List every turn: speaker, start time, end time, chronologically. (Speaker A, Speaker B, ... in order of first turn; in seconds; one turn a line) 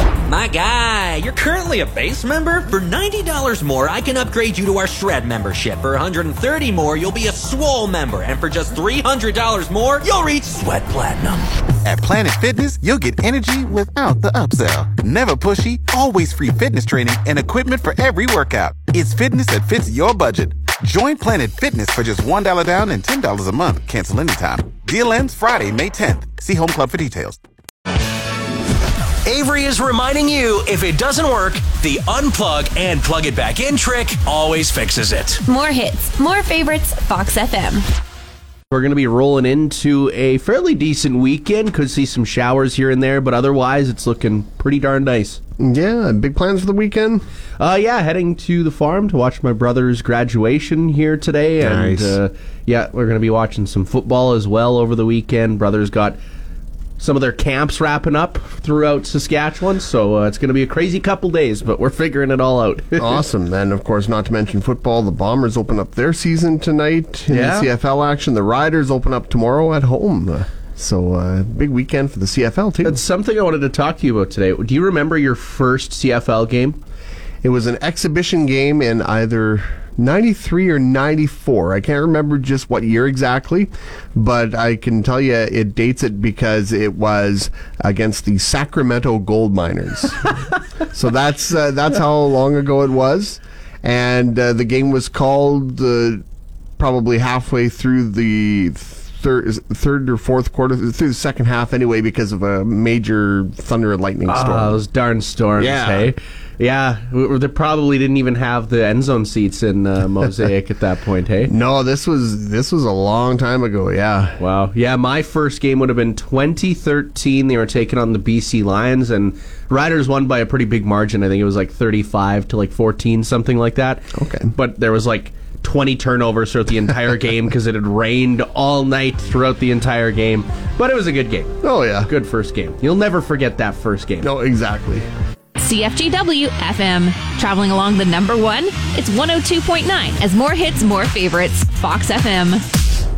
Speaker A: 0.3-10.6
Speaker B: 10.7-11.1
Speaker C: 11.8-27.4
Speaker B: 29.3-35.3
Speaker D: 35.5-37.8
Speaker E: 38.7-45.4
Speaker F: 45.6-47.2
Speaker E: 47.6-56.2
Speaker F: 51.6-52.2
Speaker E: 57.0-63.2
Speaker F: 63.0-73.0
Speaker E: 67.3-67.7
Speaker E: 72.8-76.8
Speaker F: 77.4-90.3
Speaker F: 90.9-96.2
Speaker F: 96.8-104.8
Speaker E: 104.3-111.5
Speaker F: 105.6-106.1
Speaker F: 111.5-114.4
Speaker E: 114.4-134.3
Speaker F: 124.1-124.5
Speaker F: 131.6-132.1
Speaker F: 134.2-135.1
Speaker D: 135.6-142.6